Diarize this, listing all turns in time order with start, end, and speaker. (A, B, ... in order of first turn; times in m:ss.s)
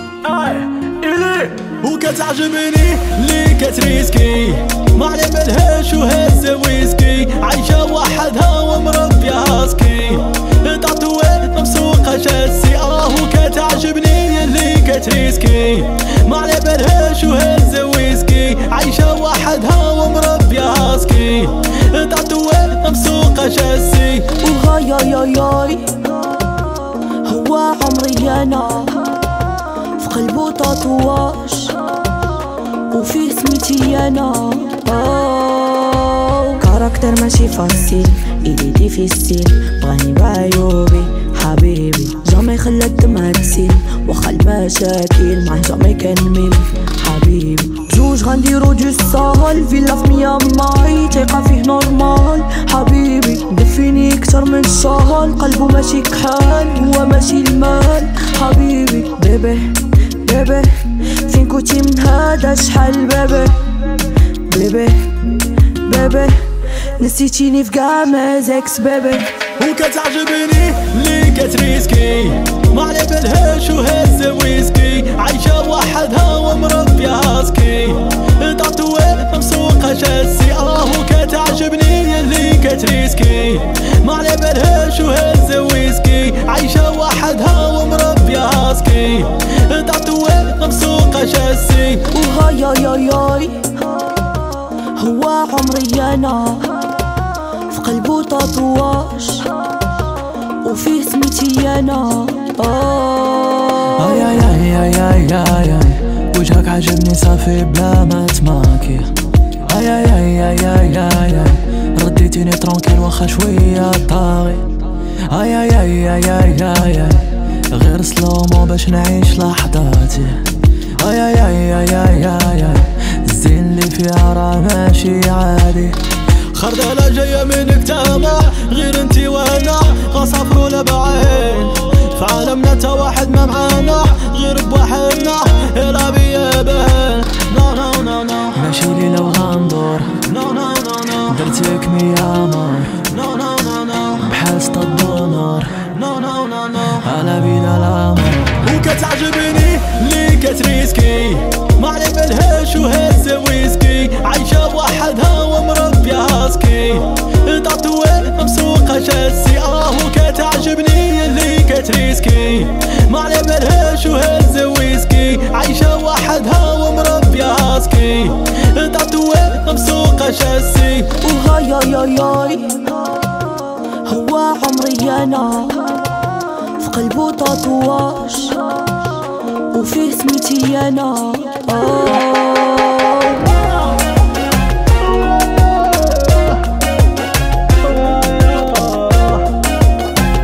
0:00.2-0:24.3 A
0:24.4-0:26.2 B
0:26.9-0:31.8 B
0:32.9-1:03.6 B
1:04.4-1:09.4 B
1:09.6-1:32.1 A
1:32.1-1:33.8 B
1:34.8-1:37.0 B
1:37.7-1:39.6 B
1:40.6-1:44.0 B
1:44.0-1:54.7 C
1:55.2-2:06.0 C
2:06.5-2:18.6 A
2:18.6-2:20.3 C
2:20.3-2:21.3 A
2:21.1-2:23.1 C
2:23.1-2:24.2 A
2:24.1-2:25.9 C
2:26.0-2:26.9 A
2:26.8-2:28.6 C
2:28.6-2:51.2 A
2:51.2-2:53.3 B
2:53.9-2:56.2 B
2:56.8-2:58.8 B
2:59.7-3:03.6 B